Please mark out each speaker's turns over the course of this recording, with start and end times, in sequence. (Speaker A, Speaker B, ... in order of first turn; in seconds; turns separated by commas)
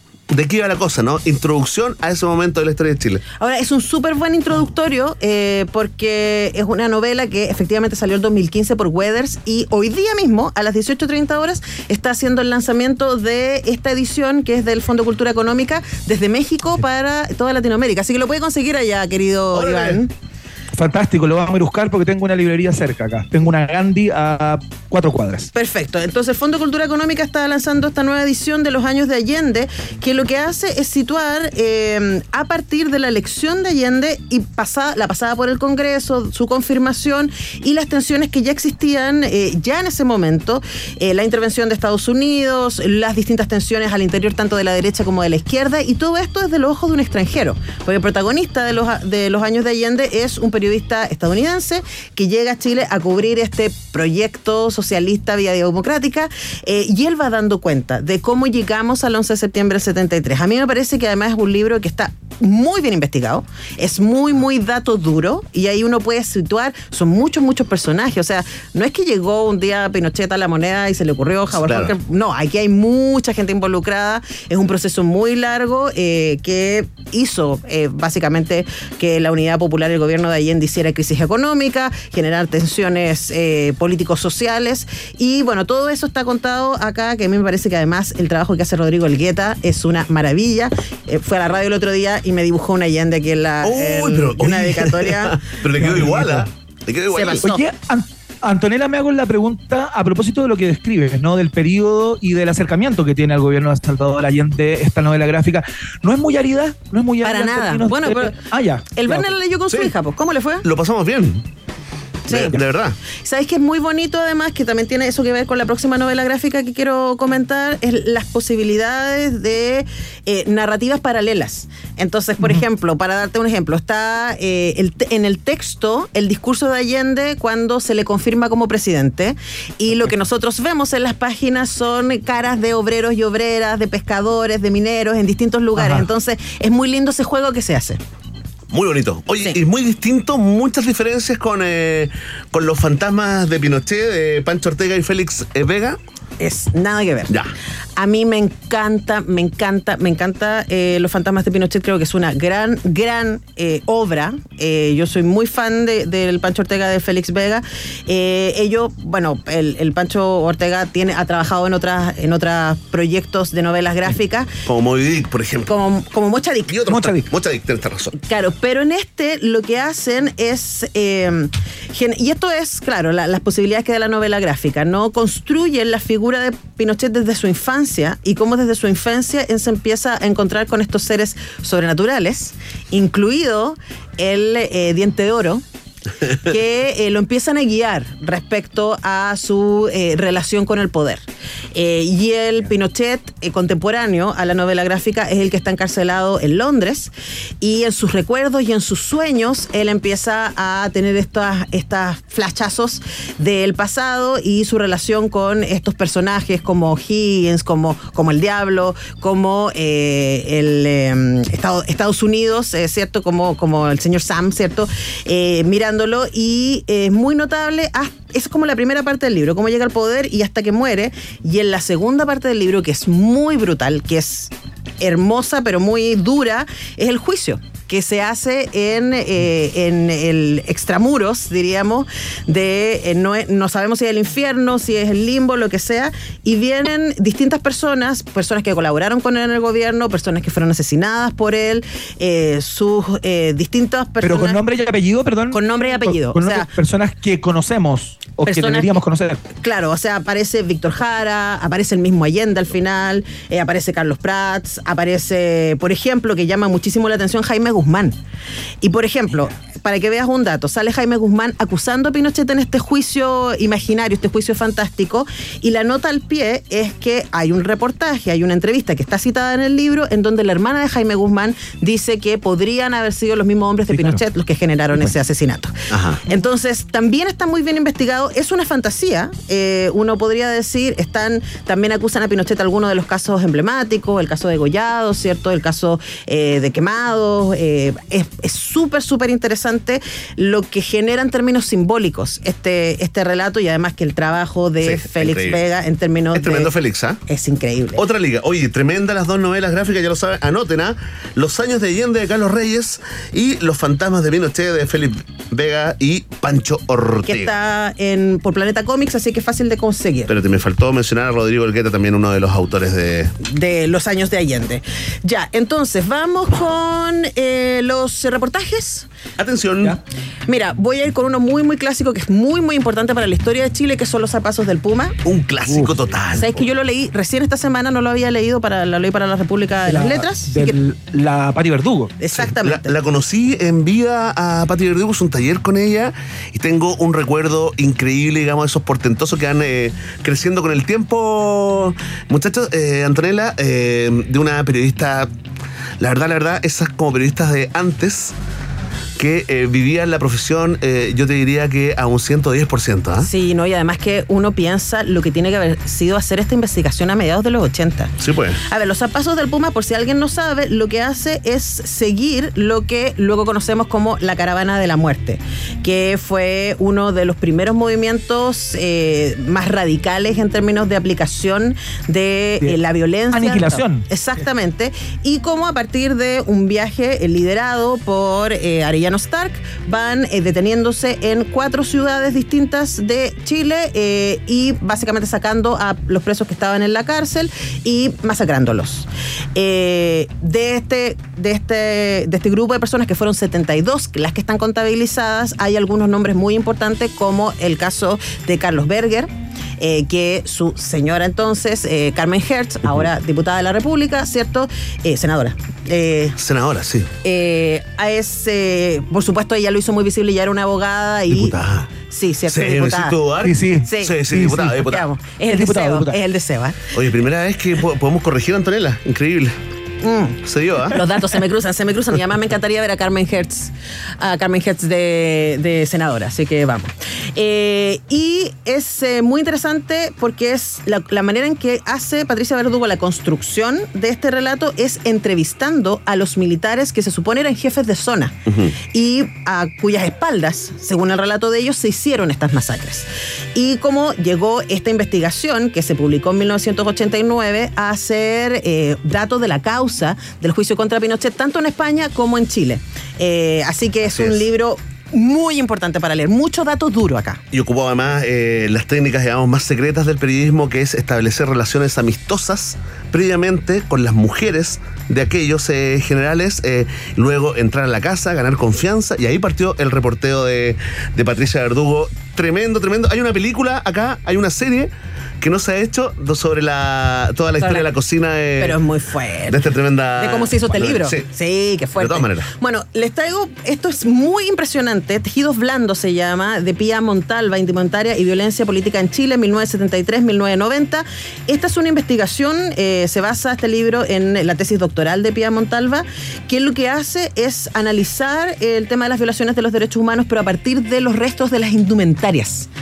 Speaker A: 0.3-3.2, Speaker B: 3.4-20.1, Speaker A: 19.5-20.0, Speaker C: 20.7-25.5, Speaker B: 25.5-95.3, Speaker A: 71.5-71.9, Speaker A: 93.6-97.5, Speaker C: 95.7-96.5, Speaker B: 97.1-97.6, Speaker C: 97.4-109.3, Speaker B: 107.2-108.3, Speaker B: 109.0-110.6, Speaker A: 110.6-111.4, Speaker A: 112.3-113.0, Speaker B: 112.3-112.5, Speaker B: 113.2-138.0, Speaker C: 135.8-136.1, Speaker A: 138.7-146.0, Speaker B: 146.4-147.3, Speaker B: 148.0-164.5, Speaker A: 164.7-165.7, Speaker B: 165.7-166.8, Speaker A: 166.7-168.1, Speaker C: 166.8-167.3, Speaker B: 168.2-185.6, Speaker B: 186.4-244.6, Speaker C: 244.2-249.4, Speaker B: 245.5-246.7, Speaker B: 248.4-249.0, Speaker B: 249.6-258.1, Speaker B: 258.8-275.7, Speaker C: 273.9-274.2, Speaker A: 275.9-276.2, Speaker B: 276.3-296.7, Speaker A: 294.8-295.6, Speaker A: 296.3-297.2, Speaker B: 297.3-298.0, Speaker A: 297.9-307.5, Speaker B: 307.3-310.3, Speaker A: 310.3-313.3, Speaker B: 313.4-319.1, Speaker A: 319.4-320.0, Speaker B: 320.5-325.2, Speaker A: 325.2-326.6, Speaker C: 325.7-325.9, Speaker B: 326.4-330.8, Speaker C: 329.8-332.1, Speaker B: 332.2-332.9, Speaker A: 332.3-345.3, Speaker A: 346.0-348.3, Speaker A: 349.2-353.3, Speaker B: 353.2-358.1, Speaker A: 358.2-358.6, Speaker B: 358.7-406.4, Speaker C: 373.3-374.1, Speaker A: 406.4-407.1, Speaker B: 407.2-411.6, Speaker A: 411.4-411.9, Speaker B: 412.1-413.2, Speaker A: 412.5-415.0, Speaker C: 413.4-414.8, Speaker B: 413.9-414.2, Speaker B: 414.8-416.8, Speaker C: 415.5-416.2, Speaker A: 416.9-419.5, Speaker B: 420.0-457.4, Speaker A: 420.4-421.0, Speaker A: 438.5-438.7, Speaker A: 454.1-454.5, Speaker A: 457.5-478.8, Speaker B: 477.6-477.9, Speaker B: 478.6-502.7, Speaker A: 479.5-481.3, Speaker A: 482.0-482.5